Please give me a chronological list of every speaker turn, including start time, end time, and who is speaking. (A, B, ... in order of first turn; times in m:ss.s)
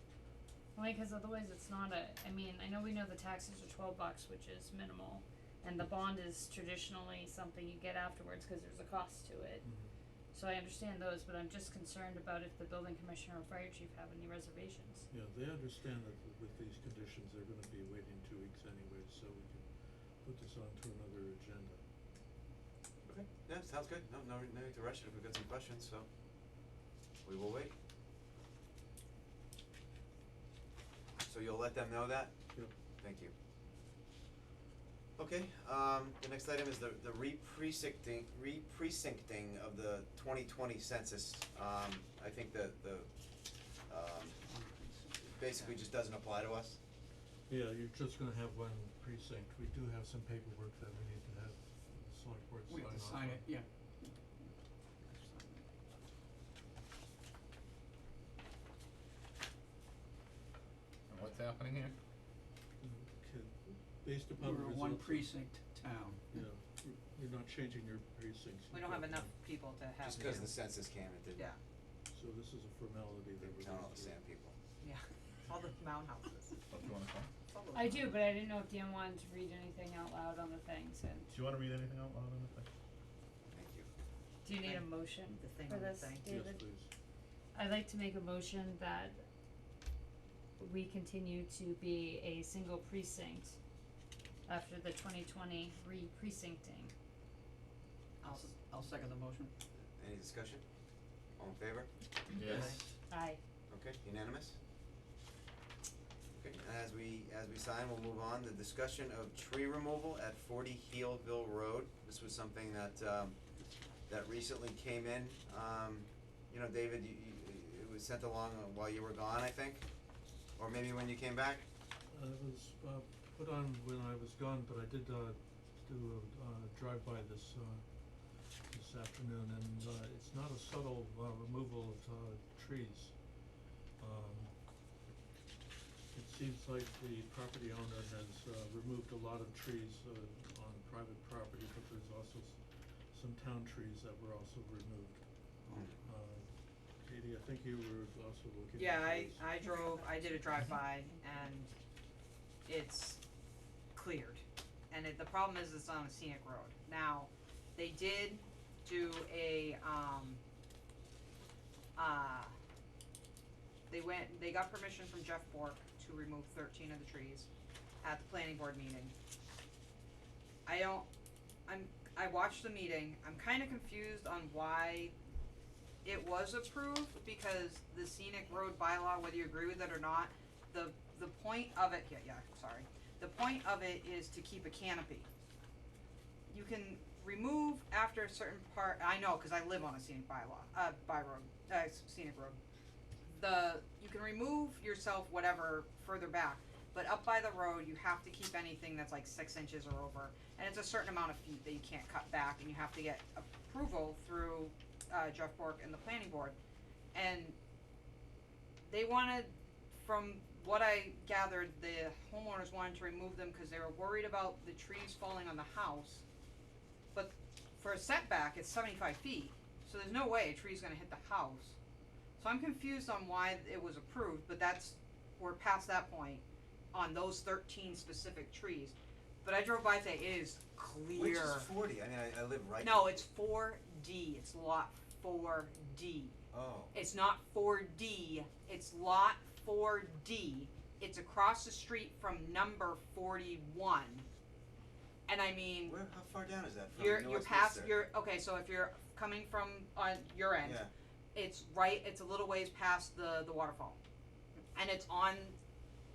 0:00.8-0:09.7 A
0:09.6-0:09.9 B
0:10.3-0:15.1 A
0:15.1-0:21.8 B
0:23.0-0:26.1 C
0:27.2-0:27.7 C
0:31.2-0:32.3 C
0:33.0-0:33.3 C
0:35.2-0:43.1 C
0:43.9-0:44.4 C
0:44.4-0:45.8 D
0:45.2-0:46.8 C
0:47.5-0:53.5 B
0:52.7-0:55.7 D
1:01.1-1:02.0 E
1:02.8-1:05.4 B
1:04.3-1:06.2 D
1:06.3-1:09.3 B
1:08.7-1:10.6 F
1:10.0-1:11.5 C
1:12.1-1:14.2 B
1:13.4-1:14.6 C
1:14.8-1:16.7 F
1:16.7-1:17.3 E
1:17.5-1:18.1 F
1:17.7-1:21.3 A
1:21.3-1:22.7 E
1:23.5-1:23.9 C
1:24.4-1:26.6 A
1:24.6-1:26.2 F
1:26.2-1:26.9 B
1:27.6-1:29.3 A
1:30.6-1:33.6 A
1:34.5-1:36.9 A
1:38.2-1:39.5 D
1:38.2-1:38.7 F
1:40.0-1:40.6 C
1:41.4-1:41.9 C
1:42.3-1:42.9 E
1:42.4-1:42.8 F
1:43.1-1:43.4 A
1:43.7-1:44.6 C
1:46.3-1:53.4 C
1:54.1-1:59.8 C
2:00.6-2:01.6 C
2:02.1-2:13.5 B
2:14.0-2:14.5 B
2:16.1-2:29.5 B
2:25.7-2:26.0 C
2:28.8-2:31.7 F
2:29.6-2:31.5 A
2:32.7-2:33.2 F
2:34.0-2:40.4 F
2:42.0-2:42.6 F
2:43.9-2:47.5 F
2:48.0-2:49.1 F
2:50.7-2:51.1 F
2:51.7-2:55.2 F
2:56.0-3:05.3 F
3:06.5-3:12.6 F
3:13.3-3:26.6 F
3:27.1-3:27.6 F
3:28.8-3:36.2 F
3:37.1-3:41.8 F
3:42.4-3:51.7 F
3:51.1-3:53.2 C
3:52.8-3:56.4 F
3:56.5-3:57.0 C
3:56.9-4:04.3 F
4:05.3-4:06.0 F
4:05.8-4:08.0 C
4:06.9-4:14.0 F
4:10.6-4:10.9 C
4:14.7-4:15.6 F